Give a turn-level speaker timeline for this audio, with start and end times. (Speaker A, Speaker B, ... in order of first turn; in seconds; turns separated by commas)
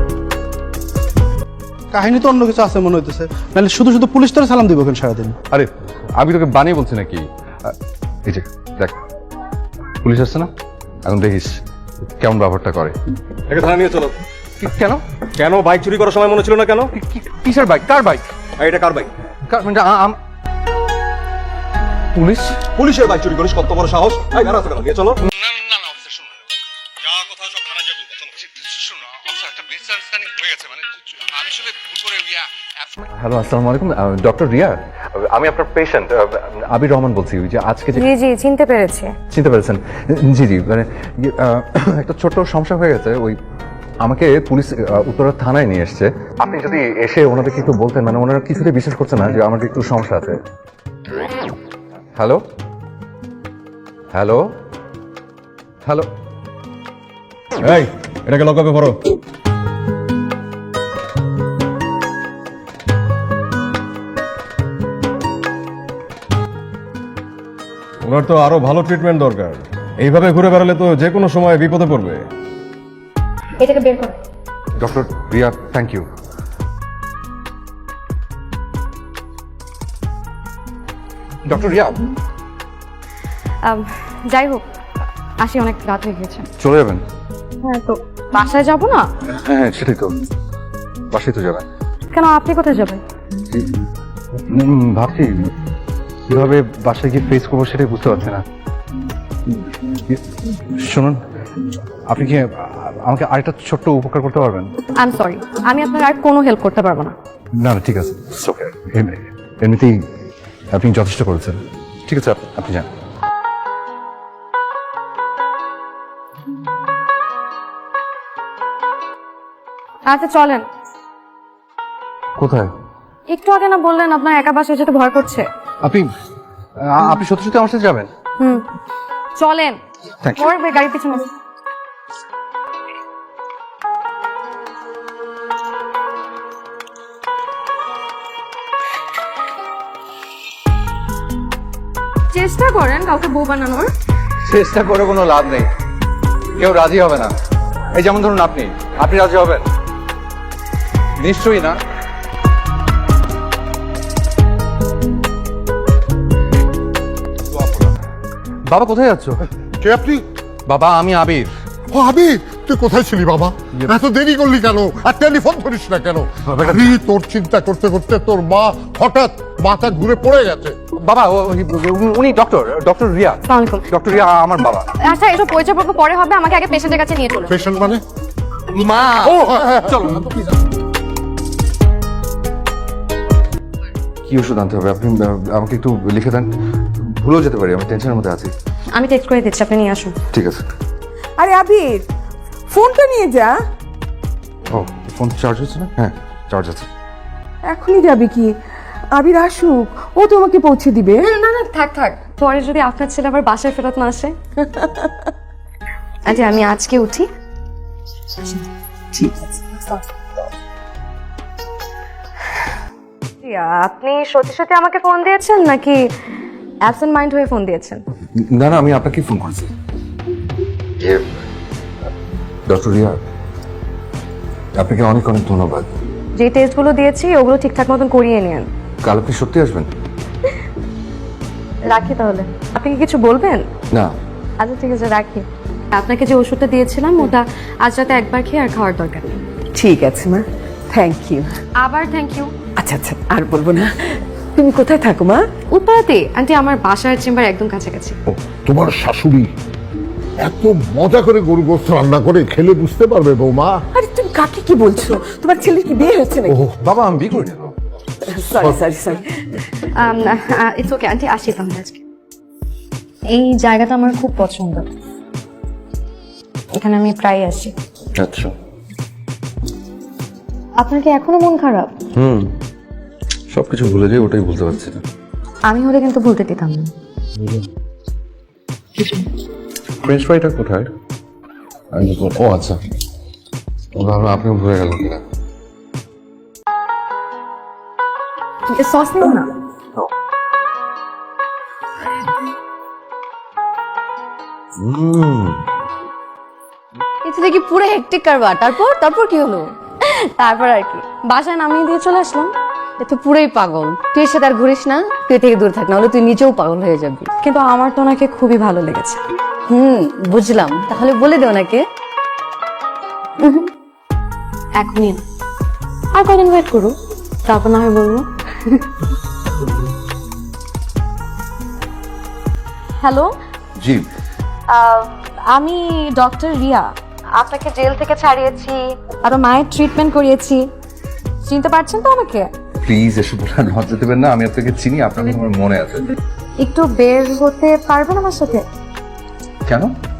Speaker A: 1.9-5.3, Speaker B: 5.5-9.0, Speaker B: 10.0-10.5, Speaker B: 11.0-11.6, Speaker B: 12.2-12.9, Speaker C: 13.5-14.1, Speaker B: 14.6-15.0, Speaker C: 15.4-16.9, Speaker B: 16.9-18.3, Speaker C: 18.6-19.1, Speaker B: 19.4-20.2, Speaker B: 22.1-22.7, Speaker C: 22.8-25.2, Speaker B: 25.2-26.3, Speaker B: 28.3-38.0, Speaker D: 38.0-39.1, Speaker B: 39.3-43.4, Speaker B: 44.0-50.4, Speaker B: 52.1-52.4, Speaker B: 54.1-54.5, Speaker B: 55.8-56.1, Speaker C: 57.6-59.1, Speaker C: 68.0-72.2, Speaker D: 73.6-74.2, Speaker B: 74.8-76.1, Speaker B: 81.5-82.1, Speaker D: 83.6-84.6, Speaker D: 85.4-86.5, Speaker B: 86.6-87.0, Speaker D: 87.6-89.1, Speaker B: 89.2-90.3, Speaker B: 91.1-91.6, Speaker D: 92.1-93.0, Speaker B: 93.5-93.8, Speaker B: 94.4-95.5, Speaker B: 96.3-98.4, Speaker B: 99.5-101.2, Speaker B: 102.1-104.7, Speaker D: 105.0-107.2, Speaker B: 107.6-110.0, Speaker B: 110.7-112.8, Speaker D: 120.1-120.7, Speaker B: 122.4-122.7, Speaker D: 123.3-125.5, Speaker B: 125.8-126.1, Speaker B: 126.9-128.1, Speaker D: 128.4-128.6, Speaker D: 129.4-129.8, Speaker B: 130.2-130.5, Speaker D: 130.3-131.3, Speaker D: 142.3-143.9, Speaker B: 144.4-145.7, Speaker B: 146.5-147.3, Speaker B: 147.9-149.6, Speaker B: 151.2-151.8, Speaker B: 157.5-157.9, Speaker B: 158.7-159.4, Speaker E: 159.8-160.2, Speaker B: 160.7-161.5, Speaker E: 161.9-170.8, Speaker B: 166.4-166.9, Speaker B: 170.9-174.9, Speaker D: 173.4-173.9, Speaker D: 174.9-177.6, Speaker E: 177.5-178.0, Speaker B: 178.7-180.4, Speaker B: 184.2-188.5, Speaker D: 188.9-190.2, Speaker B: 190.3-190.6, Speaker F: 191.4-192.1, Speaker F: 192.7-193.5, Speaker B: 194.7-196.9, Speaker F: 197.7-198.5, Speaker F: 199.1-201.2, Speaker D: 201.2-204.3, Speaker D: 206.2-207.3, Speaker D: 213.4-216.0, Speaker D: 216.8-218.0, Speaker B: 218.4-219.7, Speaker B: 221.0-221.3, Speaker B: 222.7-223.2, Speaker B: 224.8-225.9, Speaker D: 226.4-228.7, Speaker B: 229.0-229.9, Speaker D: 231.8-233.6, Speaker D: 234.6-239.4, Speaker F: 239.8-241.5, Speaker D: 241.8-242.5, Speaker F: 242.8-245.5, Speaker D: 245.7-248.2, Speaker E: 248.3-249.5, Speaker E: 250.4-253.8, Speaker F: 253.9-256.5, Speaker B: 256.4-257.7, Speaker F: 258.3-259.2, Speaker D: 259.9-262.0, Speaker D: 263.3-264.9, Speaker D: 266.7-267.7, Speaker B: 268.1-268.5, Speaker D: 270.8-271.9, Speaker B: 272.1-272.5, Speaker B: 273.5-275.0, Speaker D: 275.7-276.9, Speaker B: 280.0-280.9, Speaker B: 281.9-282.8, Speaker B: 283.9-285.2, Speaker D: 288.7-289.5, Speaker B: 294.8-295.6, Speaker G: 297.3-299.6, Speaker D: 300.1-302.5, Speaker G: 303.1-307.3, Speaker D: 307.4-309.2, Speaker G: 309.7-311.8, Speaker D: 314.8-315.2, Speaker D: 316.1-316.9, Speaker D: 317.4-318.8, Speaker D: 323.0-323.3, Speaker B: 323.8-324.1, Speaker D: 324.7-330.6, Speaker D: 331.4-332.5, Speaker B: 332.8-336.1, Speaker D: 336.6-338.6, Speaker B: 339.6-339.9